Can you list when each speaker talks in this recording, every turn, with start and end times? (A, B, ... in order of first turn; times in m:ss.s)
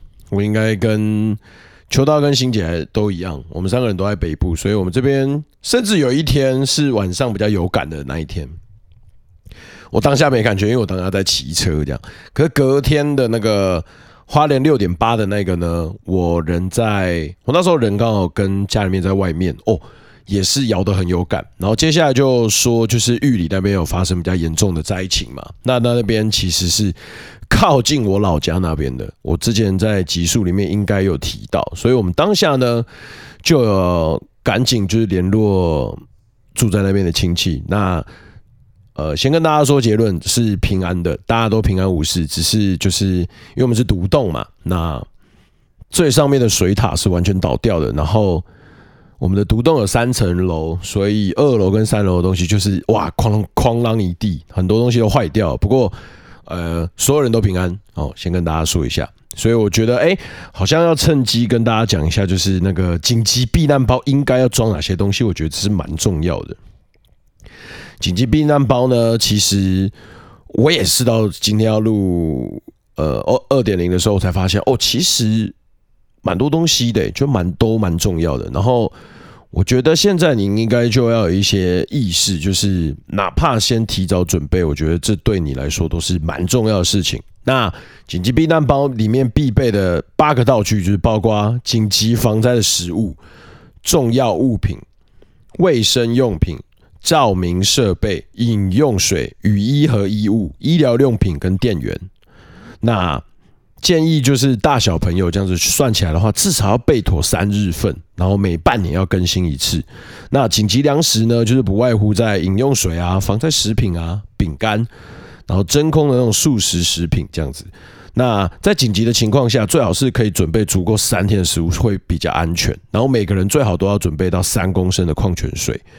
0:00.3-0:08.5 A
0:09.9-0:27.0 A
0:27.5-0:32.9 A
0:33.4-0:36.0 A
0:36.6-0:38.1 A
0:39.0-0:45.1 A
0:45.9-0:48.5 A
0:49.2-0:56.0 A
0:56.5-1:06.6 A
1:08.0-1:09.9 A
1:10.5-1:15.5 A
1:16.2-1:18.9 A
1:19.5-1:33.2 A
1:33.8-1:34.8 A
1:35.6-1:42.1 A
1:42.8-1:43.2 A
1:43.8-1:54.9 A
1:55.5-2:05.8 A